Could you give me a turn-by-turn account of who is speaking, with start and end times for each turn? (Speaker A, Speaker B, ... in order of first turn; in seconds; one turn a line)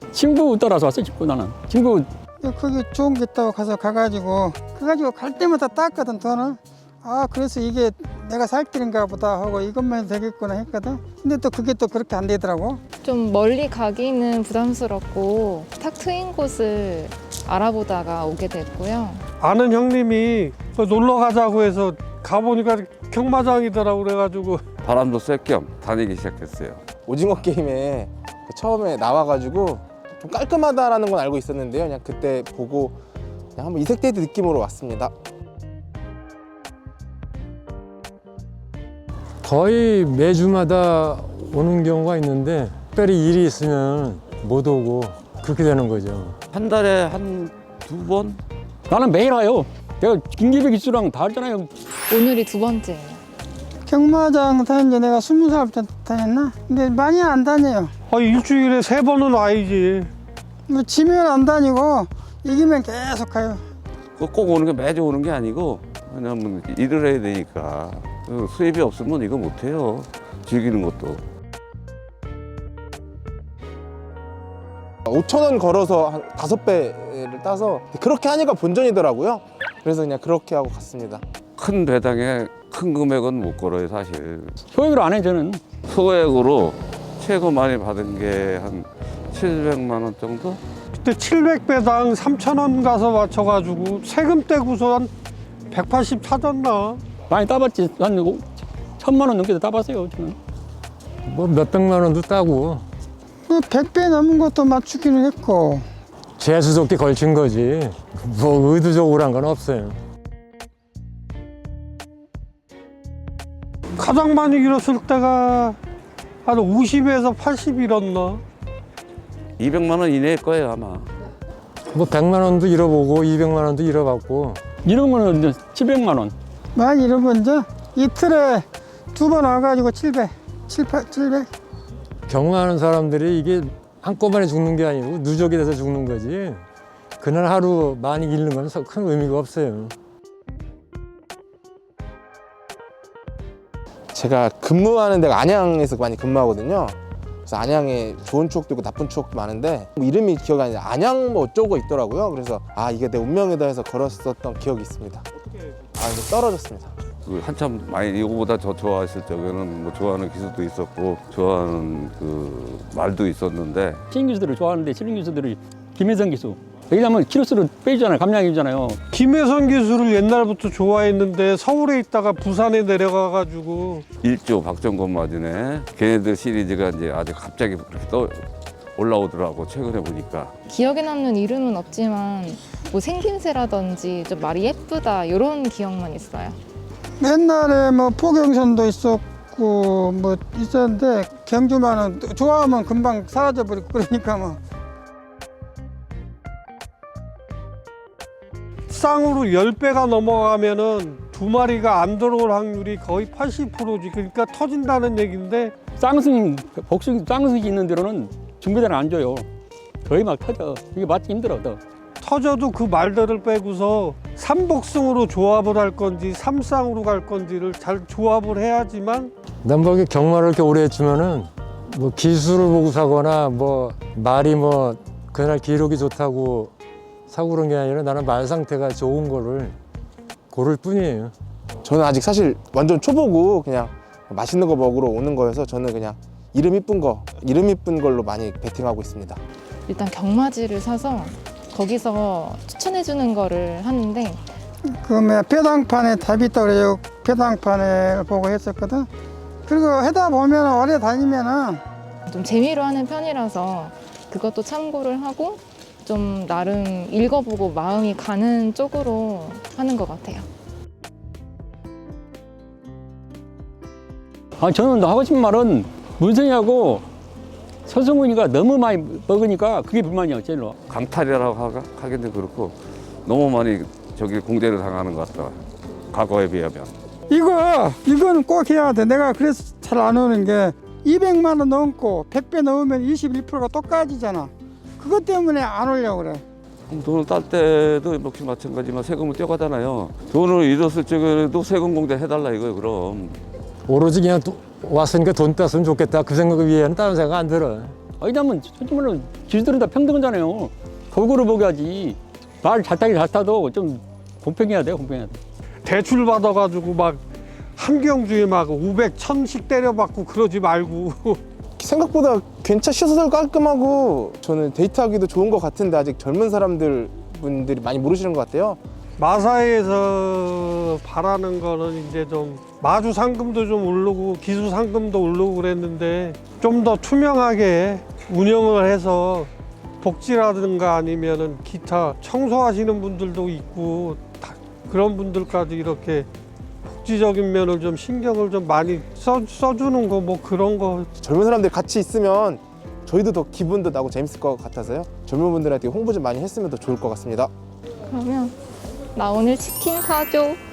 Speaker A: 0.1-2.1
Speaker B: 2.4-12.8
Speaker C: 13.0-19.2
Speaker D: 19.4-24.6
Speaker E: 24.8-26.8
Speaker F: 27.1-33.0
Speaker F: 33.5-35.1
Speaker G: 39.4-46.4
Speaker E: 46.5-48.4
Speaker A: 48.9-51.7
Speaker C: 52.1-53.2
Speaker B: 53.9-57.9
Speaker D: 58.1-60.1
Speaker B: 60.7-63.6
Speaker E: 64.2-71.2
Speaker F: 75.0-81.2
Speaker E: 81.6-84.5
Speaker A: 84.7-85.6
Speaker E: 85.9-90.6
Speaker D: 91.0-95.1
Speaker D: 95.7-97.0
Speaker A: 97.3-98.4
Speaker A: 99.0-100.3
Speaker G: 101.3-102.8
Speaker B: 103.5-105.8
Speaker G: 106.4-110.0
Speaker D: 114.0-115.8
Speaker D: 116.4-118.4
Speaker E: 119.6-121.1
Speaker G: 121.9-124.6
Speaker A: 124.8-126.3
Speaker B: 126.7-131.5
Speaker G: 132.3-136.6
Speaker G: 137.2-139.9
Speaker F: 144.1-155.2
Speaker F: 155.9-156.9
Speaker E: 157.2-164.0
Speaker A: 164.1-169.0
Speaker D: 169.1-174.0
Speaker E: 174.2-178.4
Speaker E: 179.0-180.5
Speaker C: 180.7-186.6
Speaker B: 187.2-194.6
Speaker D: 198.9-205.8
Speaker A: 205.9-209.5
Speaker A: 210.0-211.8
Speaker D: 212.2-219.3
Speaker G: 219.6-226.7
Speaker G: 227.3-229.7
Speaker G: 230.5-231.3
Speaker F: 231.8-239.4
Speaker C: 239.9-244.4
Speaker B: 245.0-249.1
Speaker B: 249.7-251.8
Speaker C: 252.3-260.5
Speaker A: 264.6-267.1
Speaker A: 267.9-270.8
Speaker E: 270.9-275.6
Speaker E: 276.1-276.9
Speaker B: 277.3-286.4
Speaker E: 286.9-293.4
Speaker G: 293.9-297.9
Speaker A: 298.2-305.4
Speaker D: 305.8-307.2
Speaker D: 307.8-311.4
Speaker F: 311.8-318.8
Speaker D: 319.2-329.5
Speaker D: 330.0-336.3
Speaker D: 336.9-341.1
Speaker F: 341.2-347.5
Speaker C: 348.1-348.5
Speaker C: 349.1-350.6